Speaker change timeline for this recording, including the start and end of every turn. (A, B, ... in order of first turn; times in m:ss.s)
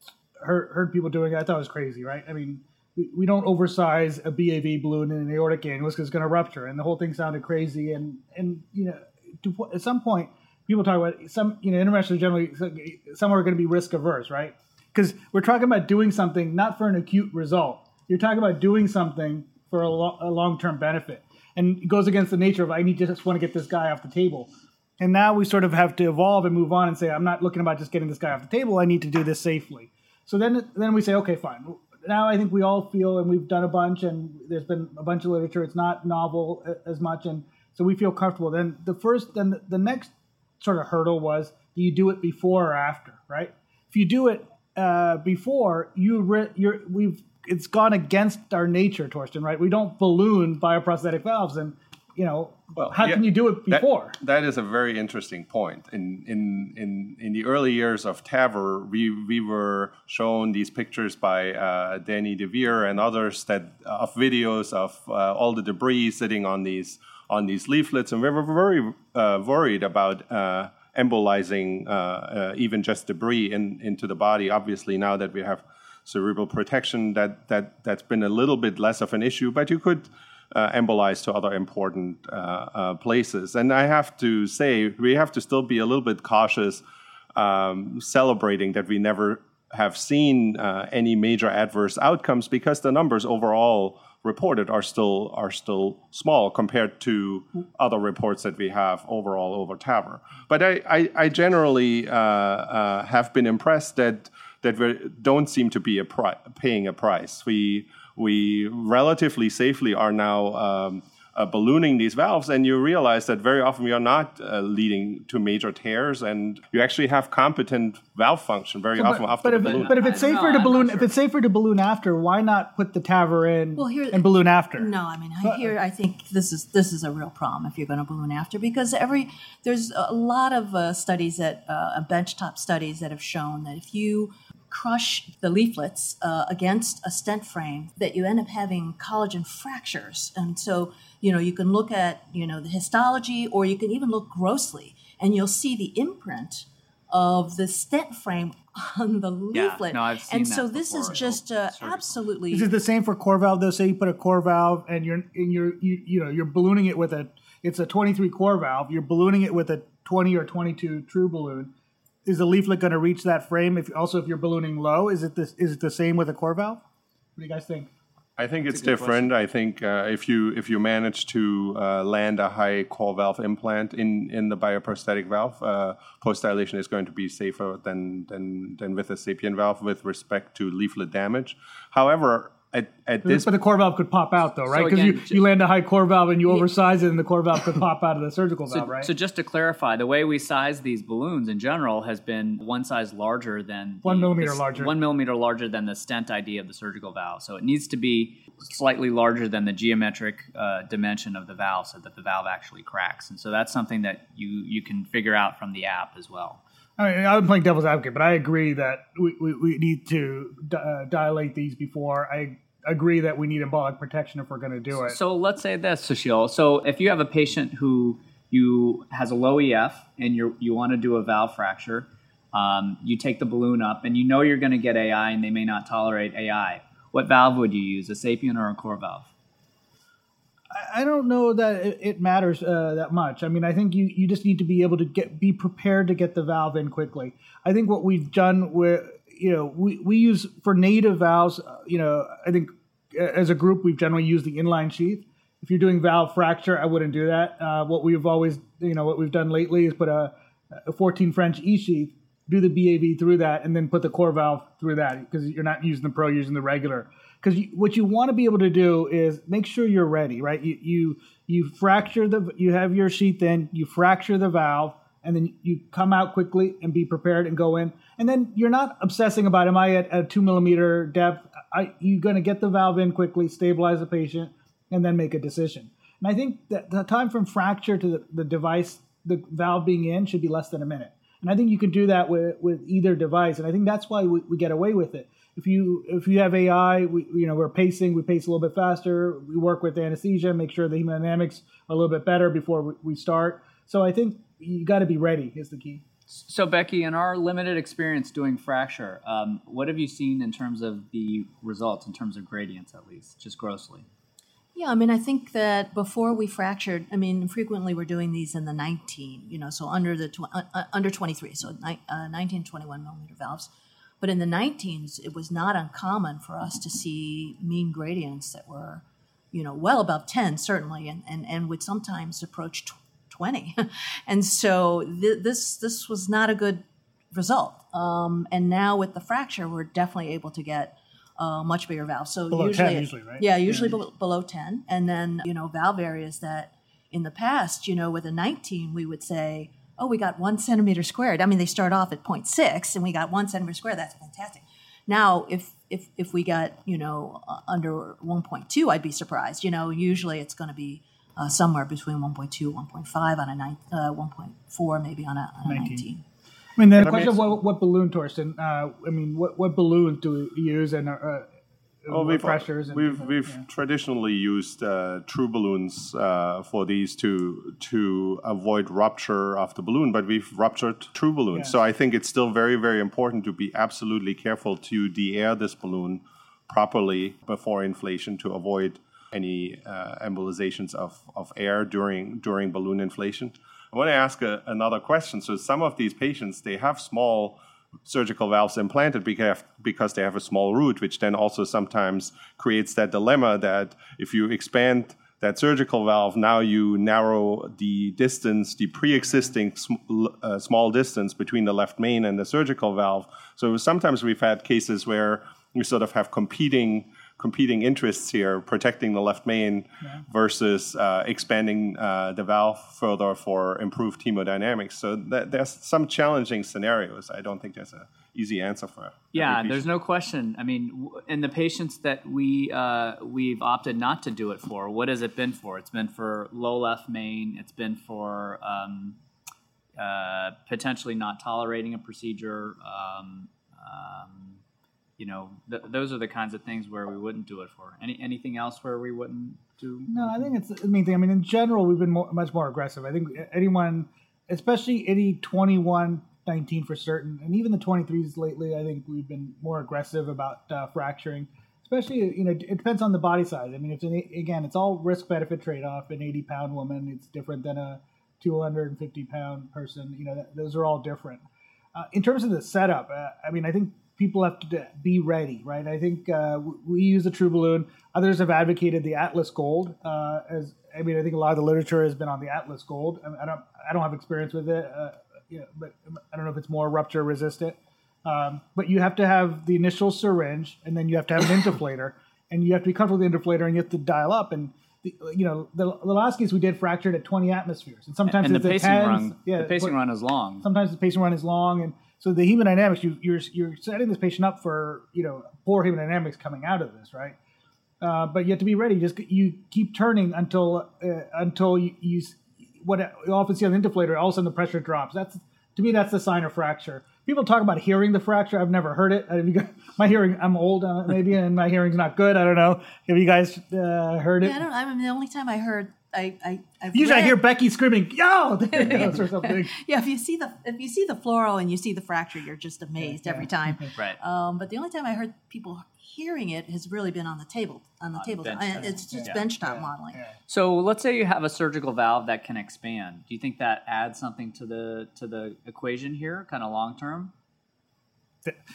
0:00.4-0:54.2 A
0:52.8-1:26.8 B
1:27.4-2:00.1 B
1:59.0-2:04.9 A
1:59.6-2:01.1 C
2:03.8-2:32.7 D
2:05.4-2:05.7 A
2:29.5-2:32.0 C
2:32.5-2:41.7 A
2:42.2-2:46.8 A
2:47.4-2:47.9 A
2:48.4-3:03.5 B
2:48.7-2:49.3 C
3:03.2-3:09.1 A
3:04.7-3:05.4 C
3:08.7-3:26.6 C
3:14.0-3:14.9 A
3:27.0-3:35.2 A
3:34.9-3:49.3 C
3:50.7-4:10.3 A
4:10.8-4:56.0 A
4:56.3-5:04.1 C
5:04.8-5:13.7 D
5:14.2-5:56.2 D
5:32.5-5:34.0 A
5:55.7-5:56.1 A
5:56.8-6:01.5 A
5:57.0-5:57.5 B
6:02.0-6:03.6 A
6:02.1-6:59.9 B
6:59.3-7:09.2 C
7:10.0-7:14.6 C
7:15.2-7:20.5 C
7:20.1-8:09.9 A
8:08.3-8:10.6 C
8:10.6-8:17.4 A
8:18.0-8:34.6 A
8:34.4-8:37.4 D
8:37.0-8:39.7 A
8:38.7-8:50.2 D
8:43.0-8:43.8 A
8:48.2-8:49.5 C
8:48.8-8:50.4 A
8:50.5-8:57.3 C